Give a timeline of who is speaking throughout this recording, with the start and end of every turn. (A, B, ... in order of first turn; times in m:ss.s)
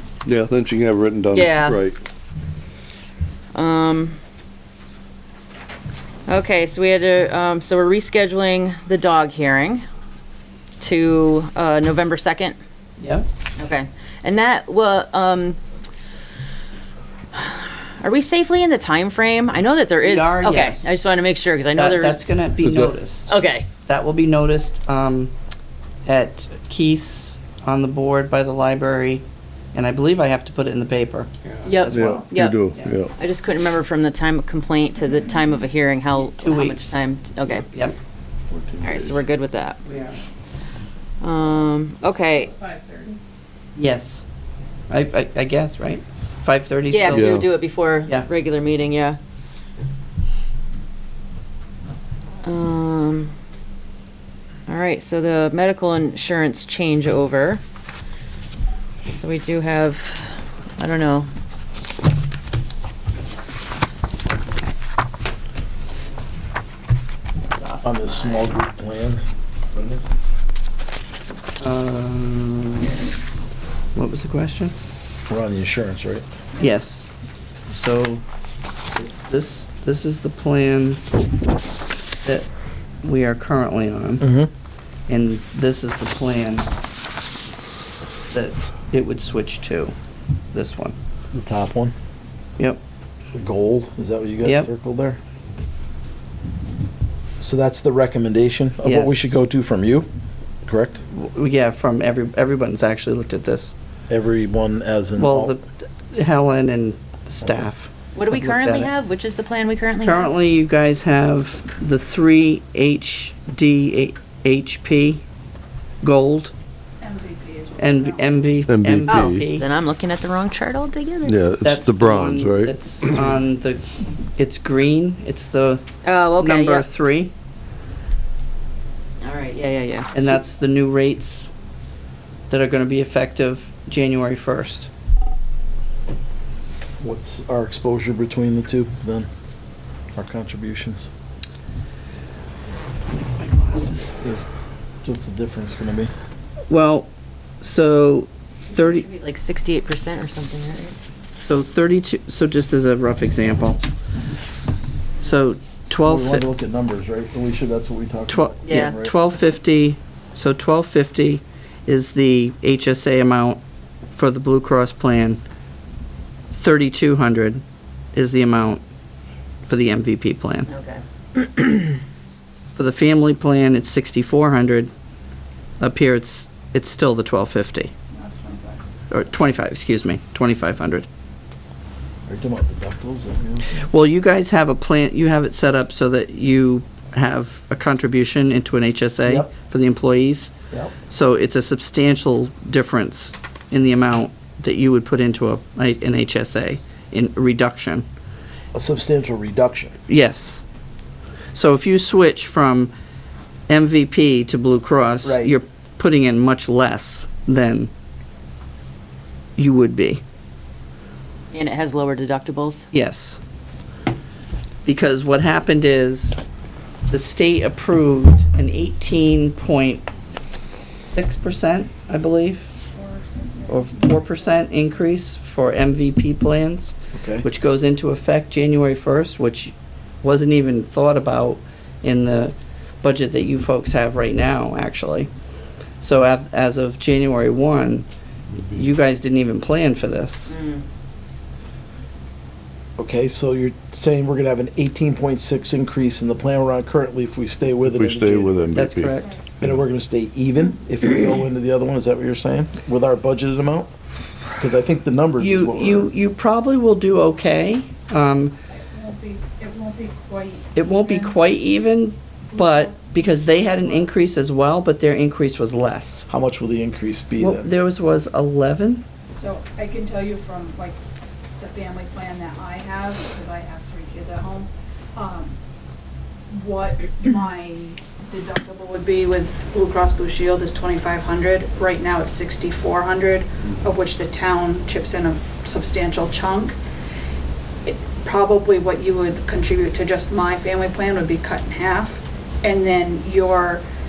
0:00.2-0:02.0 A
0:01.3-0:01.8 B
0:03.5-0:04.2 B
0:06.3-0:09.8 B
0:10.8-0:12.6 B
0:13.0-0:13.3 C
0:13.6-0:15.6 B
0:17.3-0:22.4 B
0:20.0-0:20.9 C
0:21.7-0:23.3 C
0:22.6-0:23.0 A
0:23.2-0:23.6 B
0:23.8-0:25.3 C
0:26.0-0:29.2 C
0:29.7-0:32.9 C
0:31.6-0:32.6 B
0:31.9-0:33.1 A
0:33.2-0:37.6 B
0:36.4-0:37.0 C
0:38.5-0:39.2 A
0:38.8-0:39.8 B
0:39.8-0:40.2 C
0:41.2-0:42.5 B
0:42.3-0:43.1 C
0:43.8-0:44.2 C
0:44.9-0:47.4 C
0:46.9-0:49.2 B
0:47.1-0:47.5 A
0:52.4-0:53.3 B
0:54.7-0:57.6 B
0:59.1-1:01.3 B
1:07.5-1:08.5 B
1:07.8-1:09.2 D
1:11.6-1:12.9 C
1:13.9-1:14.7 C
1:15.3-1:16.2 D
1:16.6-1:17.1 C
1:17.7-1:18.2 C
1:18.9-1:21.0 C
1:23.0-1:24.2 C
1:24.2-1:24.5 D
1:25.1-1:26.7 C
1:28.3-1:29.9 C
1:30.5-1:31.0 C
1:31.3-1:31.9 D
1:33.3-1:35.2 D
1:34.4-1:34.7 C
1:37.4-1:40.1 D
1:38.8-1:39.4 C
1:40.6-1:41.0 D
1:41.1-1:43.7 C
1:44.1-1:45.6 D
1:45.2-1:48.9 C
1:47.4-1:47.7 D
1:48.1-1:50.3 B
1:50.0-1:55.2 C
1:56.0-1:56.5 C
1:57.0-1:58.4 E
1:57.8-1:59.6 C
1:58.7-1:59.5 A
1:59.1-2:01.4 B
2:01.2-2:03.1 A
2:01.6-2:03.8 C
2:04.4-2:05.8 C
2:06.0-2:06.9 B
2:06.4-2:07.3 C
2:09.2-2:10.4 B
2:10.1-2:11.5 C
2:12.5-2:14.9 C
2:17.0-2:19.3 D
2:20.1-2:21.1 D
2:23.1-2:24.1 C
2:24.2-2:24.5 D
2:25.0-2:26.1 D
2:26.7-2:27.1 C
2:27.6-2:29.0 C
2:28.7-2:31.0 B
2:31.4-2:33.8 C
2:35.2-2:36.5 C
2:36.0-2:39.2 D
2:38.3-2:43.6 C
2:38.6-2:38.9 B
2:44.1-2:45.4 C
2:46.5-2:47.6 C
2:48.1-2:48.8 C
2:49.6-2:50.7 C
2:50.7-2:51.0 B
2:52.7-2:54.9 C
2:55.8-2:57.9 C
2:58.1-2:58.8 E
2:59.1-3:01.1 C
3:02.3-3:03.7 D
3:03.8-3:10.5 C
3:09.2-3:09.5 D
3:11.1-3:18.0 C
3:18.7-3:19.9 D
3:20.1-3:20.6 C
3:21.5-3:22.9 C
3:23.7-3:27.9 C
3:25.2-3:25.5 D
3:29.6-3:30.2 C
3:31.5-3:32.9 B
3:32.9-3:33.4 C
3:34.8-3:36.4 C
3:37.1-3:40.1 C
3:41.0-3:42.7 C
3:42.9-3:45.0 E
3:43.7-3:55.3 C
3:47.1-3:47.4 D
3:56.0-3:58.0 C
3:58.5-3:58.8 A
3:58.7-4:00.5 C
4:00.5-4:00.8 B
4:03.0-4:08.9 D
4:07.8-4:09.7 A
4:08.7-4:09.3 C
4:09.6-4:13.9 D
4:14.6-4:16.1 D
4:15.4-4:18.5 C
4:18.7-4:21.4 E
4:20.7-4:26.3 C
4:22.5-4:24.2 E
4:26.3-4:27.7 D
4:27.4-4:29.0 C
4:29.2-4:31.0 E
4:31.6-4:35.6 E
4:36.5-4:46.8 E
4:47.8-4:53.8 E